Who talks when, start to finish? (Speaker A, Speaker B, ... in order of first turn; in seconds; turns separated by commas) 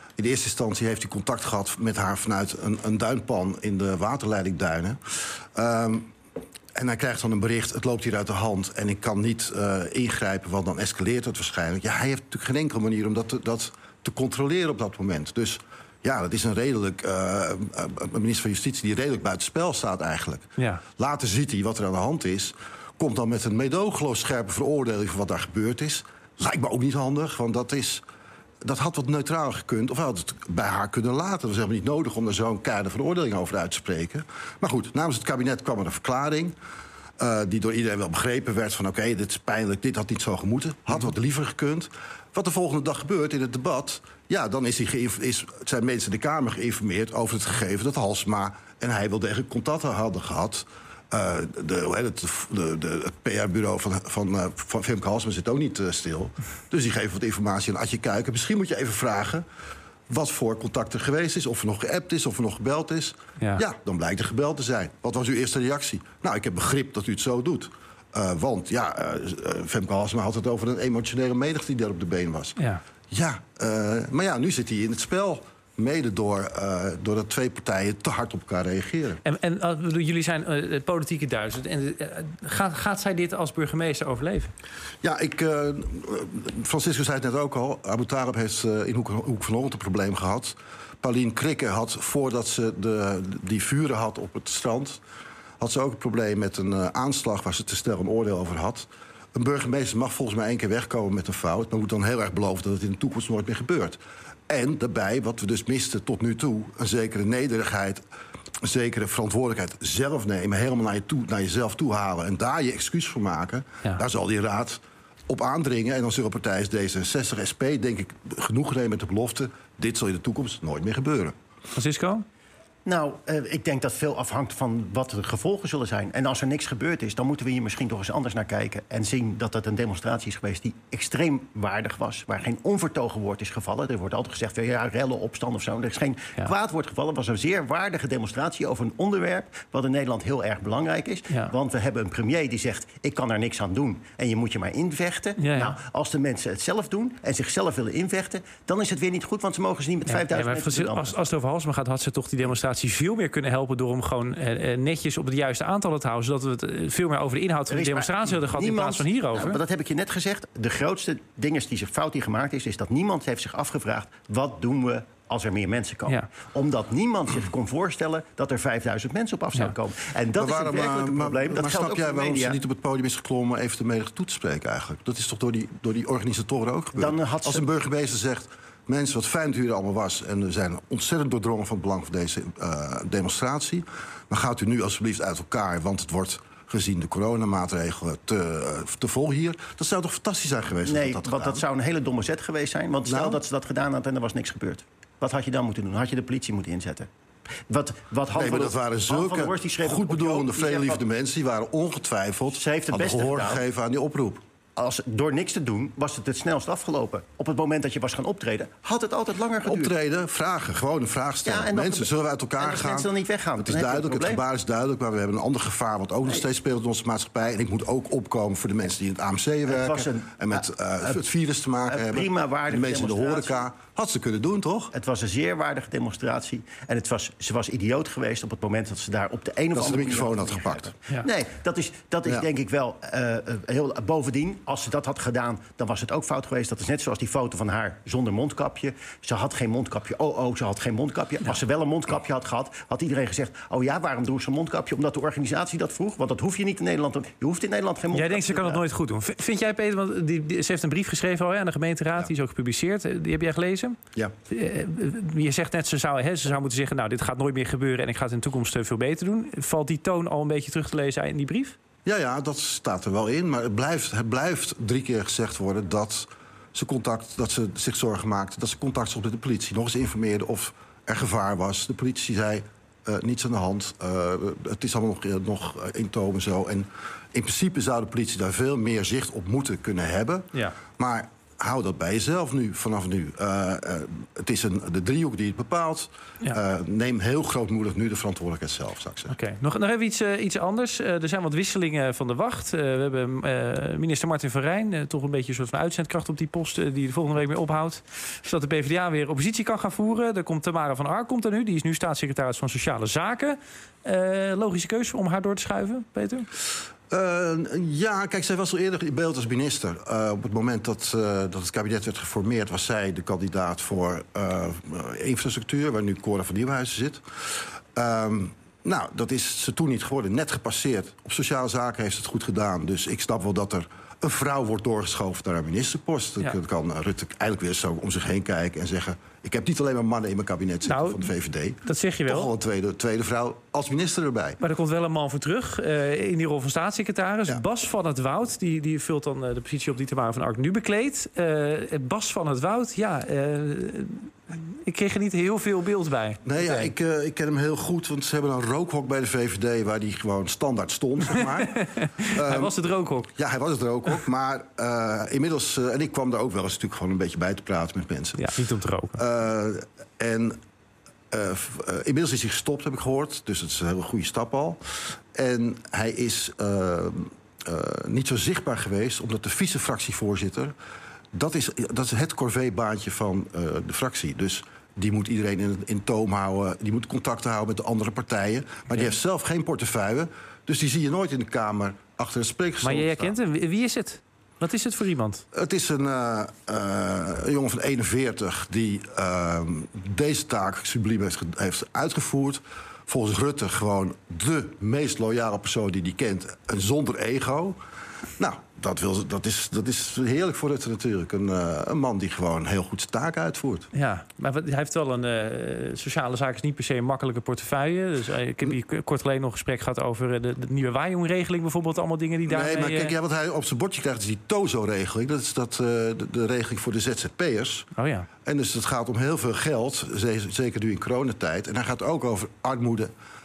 Speaker A: 0.2-5.0, Speaker A: 5.5-6.1, Speaker A: 6.8-20.4, Speaker B: 20.6-20.8, Speaker A: 21.0-28.0, Speaker A: 28.6-36.5, Speaker A: 37.2-59.4, Speaker A: 60.1-72.6, Speaker B: 72.6-72.8, Speaker A: 73.1-79.2, Speaker B: 79.2-84.5, Speaker A: 85.0-95.0, Speaker A: 95.6-108.0, Speaker A: 108.6-121.3, Speaker B: 121.7-122.2, Speaker C: 122.9-151.2, Speaker B: 145.4-145.8, Speaker B: 150.1-159.6, Speaker C: 157.7-172.6, Speaker A: 170.4-191.6, Speaker C: 176.9-177.6, Speaker C: 190.8-197.1, Speaker A: 193.1-193.4, Speaker C: 197.7-201.0, Speaker A: 198.3-204.4, Speaker C: 202.5-203.6, Speaker C: 204.8-209.9, Speaker A: 209.6-224.9, Speaker C: 211.4-214.4, Speaker C: 219.7-221.2, Speaker C: 221.9-223.7, Speaker C: 224.9-248.8, Speaker A: 229.7-230.9, Speaker B: 248.1-254.0, Speaker B: 254.5-261.8, Speaker A: 262.1-289.3, Speaker B: 289.3-306.5, Speaker A: 307.1-334.6, Speaker B: 330.9-331.3, Speaker B: 331.8-332.5, Speaker B: 334.6-346.9, Speaker A: 346.5-352.7, Speaker B: 351.8-353.3, Speaker A: 353.4-358.4, Speaker B: 358.4-359.2, Speaker A: 359.2-360.6, Speaker A: 361.3-370.7, Speaker A: 371.3-383.3, Speaker B: 382.8-385.4, Speaker A: 385.5-397.8, Speaker A: 398.4-403.9, Speaker B: 403.9-413.1, Speaker A: 412.5-417.9, Speaker B: 417.9-418.3, Speaker A: 418.4-423.1